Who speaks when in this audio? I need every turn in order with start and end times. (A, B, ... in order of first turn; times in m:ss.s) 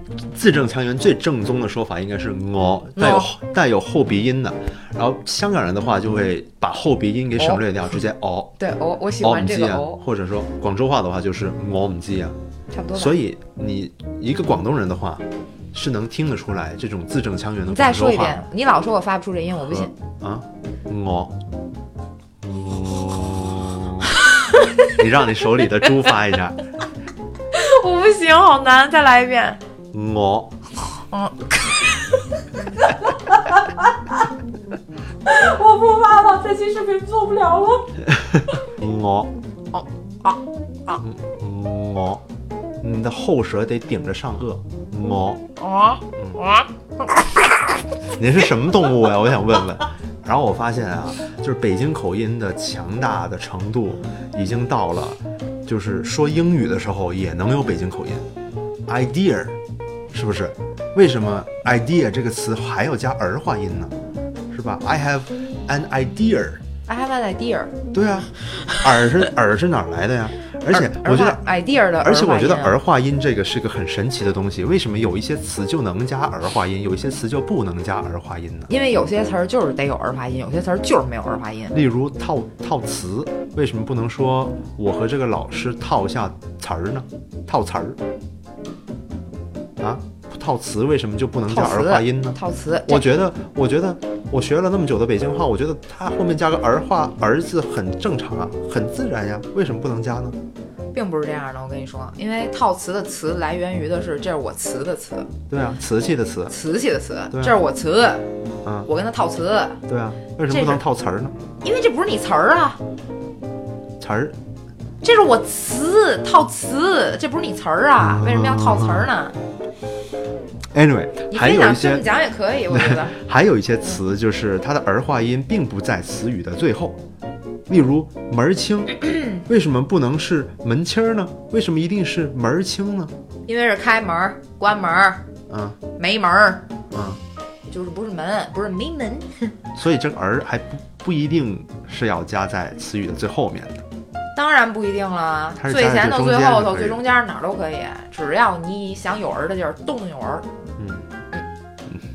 0:00.3-0:08.5 A
0:03.0-0:03.3 B
0:07.4-0:07.6 B
0:08.6-0:10.0 B
0:09.2-0:12.4 A
0:12.7-0:13.2 B
0:12.9-0:18.4 A
0:17.7-0:19.9 B
0:19.6-0:21.4 A
0:22.4-0:24.2 A
0:24.1-0:25.0 B
0:24.9-0:26.6 A
0:27.5-0:29.6 B
0:29.9-0:30.6 A
0:31.0-0:34.3 B
0:35.2-0:37.9 B
0:38.1-0:39.3 A
0:39.7-0:41.0 B
0:41.0-0:42.2 A
0:42.8-0:45.4 A
0:45.6-0:47.8 B
0:46.2-0:46.4 A
0:48.1-0:58.3 A
0:58.9-0:59.6 A
1:00.1-1:03.9 A
1:04.5-1:06.6 A
1:06.9-1:07.8 B
1:07.9-1:11.4 A
1:10.7-1:12.8 B
1:12.0-1:18.7 A
1:18.7-1:21.7 B
1:21.7-1:28.0 A
1:29.8-1:40.4 A
1:31.5-1:33.1 B
1:40.9-1:45.3 B
1:45.5-1:46.6 A
1:46.5-1:48.3 B
1:47.3-1:47.6 A
1:48.6-1:48.9 A
1:48.9-1:49.8 B
1:49.9-1:51.4 A
1:50.5-1:50.8 B
1:51.6-1:52.8 B
1:54.0-1:54.4 A
1:55.0-1:59.4 B
1:58.0-1:59.1 A
2:00.7-2:02.0 A
2:01.3-2:03.2 B
2:02.7-2:07.0 A
2:07.7-2:13.1 A
2:13.5-2:15.2 B
2:15.5-2:15.8 A
2:15.9-2:16.7 B
2:16.9-2:17.2 A
2:17.7-2:19.5 B
2:19.7-2:23.8 A
2:24.4-2:30.5 B
2:25.6-2:27.0 A
2:30.8-2:31.1 A